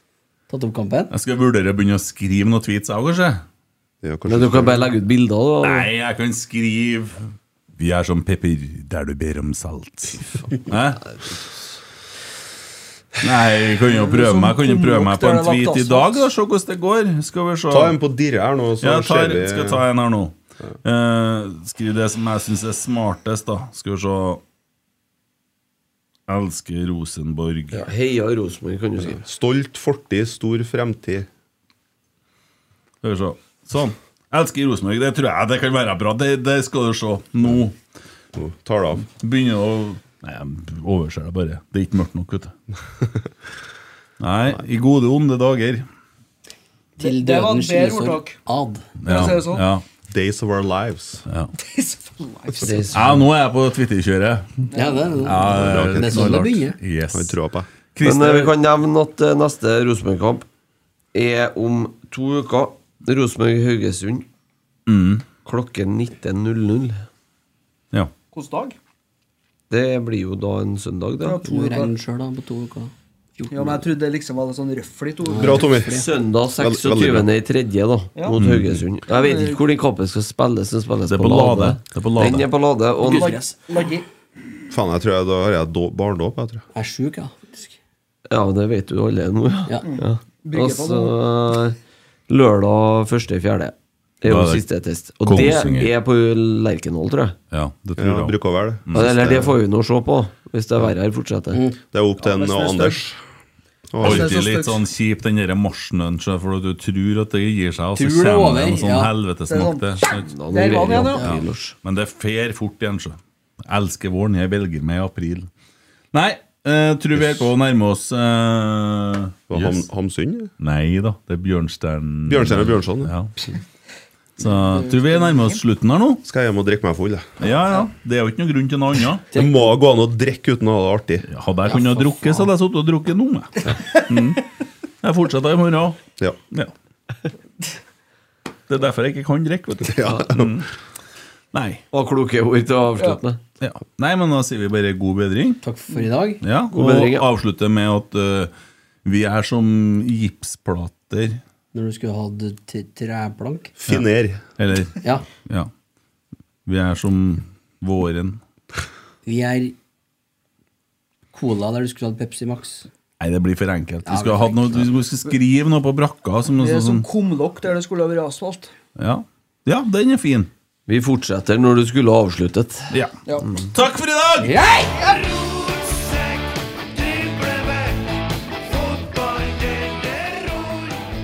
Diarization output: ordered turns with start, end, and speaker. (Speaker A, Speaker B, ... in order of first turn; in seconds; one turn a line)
Speaker A: 0.5-1.1
Speaker B: 1.1-3.4
Speaker C: 4.0-4.9
Speaker D: 4.3-5.9
Speaker B: 5.6-7.2
Speaker B: 7.8-11.0
Speaker D: 11.1-11.4
Speaker B: 13.2-17.9
Speaker E: 13.8-16.3
Speaker C: 17.7-19.8
Speaker B: 18.8-24.4
Speaker B: 26.3-27.8
Speaker D: 27.7-29.2
Speaker C: 29.0-31.3
Speaker B: 33.0-37.8
Speaker C: 38.3-39.1
Speaker B: 39.1-42.5
Speaker B: 44.2-45.9
Speaker E: 47.0-48.4
Speaker A: 47.0-48.9
Speaker B: 49.0-49.8
Speaker E: 49.0-49.6
Speaker C: 50.0-51.2
Speaker E: 51.6-53.0
Speaker D: 52.6-53.2
Speaker B: 52.9-54.6
Speaker E: 54.7-55.3
Speaker A: 54.7-56.8
Speaker B: 55.2-57.4
Speaker C: 55.4-56.4
Speaker C: 57.1-57.7
Speaker B: 57.9-58.5
Speaker D: 58.0-60.5
Speaker D: 61.1-64.2
Speaker B: 64.8-65.2
Speaker D: 65.4-67.0
Speaker E: 68.3-68.8
Speaker D: 69.7-71.4
Speaker E: 71.2-71.9
Speaker A: 71.4-73.9
Speaker E: 73.5-75.7
Speaker A: 75.2-76.0
Speaker C: 75.4-77.3
Speaker D: 75.8-83.4
Speaker E: 78.1-78.4
Speaker B: 78.3-78.8
Speaker E: 79.1-79.6
Speaker B: 81.1-82.5
Speaker E: 83.0-84.0
Speaker A: 83.0-83.5
Speaker C: 84.7-86.6
Speaker A: 86.7-87.7
Speaker D: 88.3-91.8
Speaker E: 89.8-91.2
Speaker D: 92.3-97.3
Speaker B: 94.2-94.6
Speaker B: 95.2-95.9
Speaker B: 97.5-98.3
Speaker C: 98.0-99.1
Speaker B: 98.8-99.5
Speaker D: 98.9-101.6
Speaker C: 101.9-103.2
Speaker E: 102.2-103.0
Speaker C: 103.9-104.3
Speaker E: 104.0-104.8
Speaker B: 104.0-110.3
Speaker A: 107.9-109.1
Speaker E: 109.5-111.2
Speaker D: 110.1-111.7
Speaker B: 111.2-115.5
Speaker B: 116.1-119.8
Speaker C: 119.5-120.5
Speaker B: 120.6-123.3
Speaker C: 122.3-123.1
Speaker B: 124.4-126.2
Speaker E: 125.1-125.5
Speaker C: 126.2-127.3
Speaker B: 127.4-129.3
Speaker C: 129.3-131.3
Speaker A: 129.3-129.6
Speaker B: 131.3-134.5
Speaker A: 131.7-132.5
Speaker B: 135.0-136.7
Speaker B: 138.7-140.7
Speaker C: 139.8-140.6
Speaker B: 141.5-141.8
Speaker D: 141.9-143.4
Speaker B: 143.6-145.6
Speaker A: 145.6-146.4
Speaker B: 146.4-148.5
Speaker D: 146.7-147.3
Speaker B: 149.0-151.4
Speaker A: 151.7-153.7
Speaker C: 153.8-154.4
Speaker B: 154.6-155.7
Speaker B: 156.7-158.4
Speaker A: 159.2-159.7
Speaker A: 161.3-162.9
Speaker B: 163.2-167.0
Speaker A: 164.0-164.9
Speaker E: 166.6-168.7
Speaker B: 168.9-170.5
Speaker D: 170.9-172.9
Speaker B: 172.9-174.6
Speaker E: 173.2-173.5
Speaker A: 174.4-175.0
Speaker E: 175.0-176.1
Speaker E: 177.0-178.0
Speaker E: 178.7-180.8